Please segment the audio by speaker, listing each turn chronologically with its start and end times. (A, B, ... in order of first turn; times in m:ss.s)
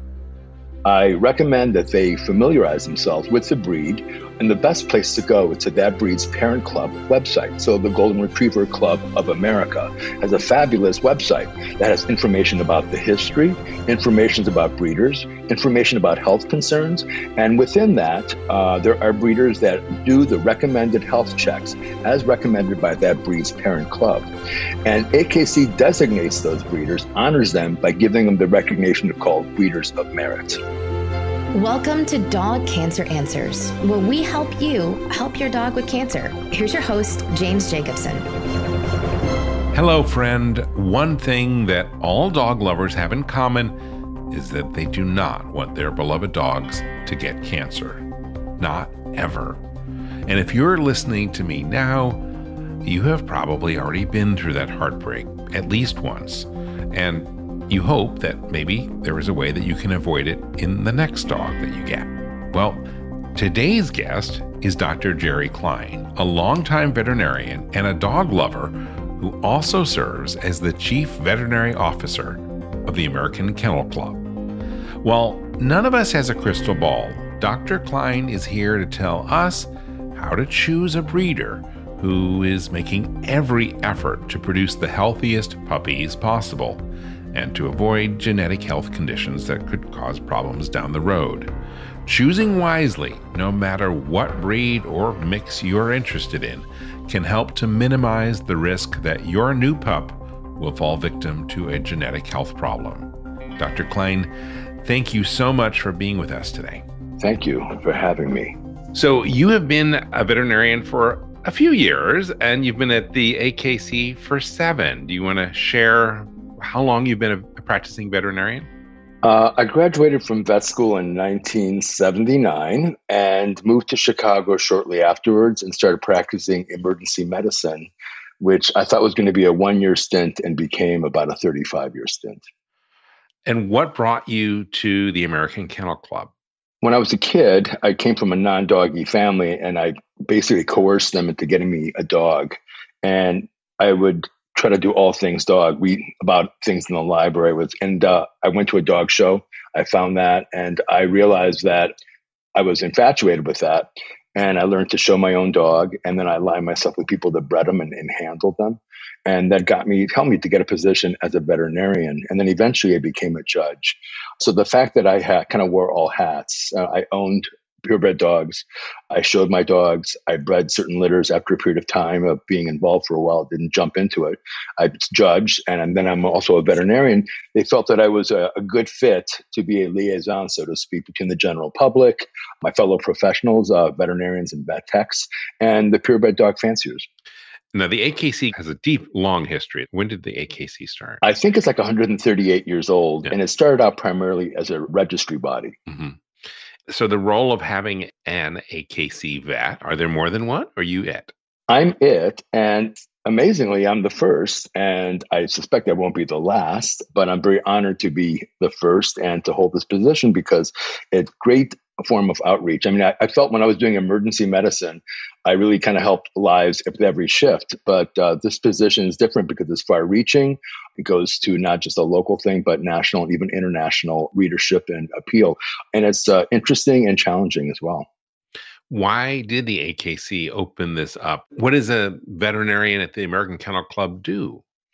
0:00.8-0:24.3 A
0:24.8-0:30.6 A
0:31.5-0:38.3 B
0:39.7-0:43.8 C
0:44.3-0:48.0 C
0:48.6-0:49.6 C
0:50.2-0:52.2 C
0:52.8-1:02.8 C
1:03.3-1:14.2 C
1:15.0-1:31.5 C
1:32.0-1:46.8 C
1:47.2-1:48.5 A
1:48.9-1:58.7 C
1:59.2-2:12.4 A
2:13.4-2:16.3 C
2:16.8-2:31.9 A
2:32.6-3:07.1 A
3:07.7-3:11.2 C
3:11.2-3:15.8 A
3:15.9-3:16.2 C
3:16.9-3:21.3 C
3:21.7-3:48.1 A
3:48.9-3:54.6 C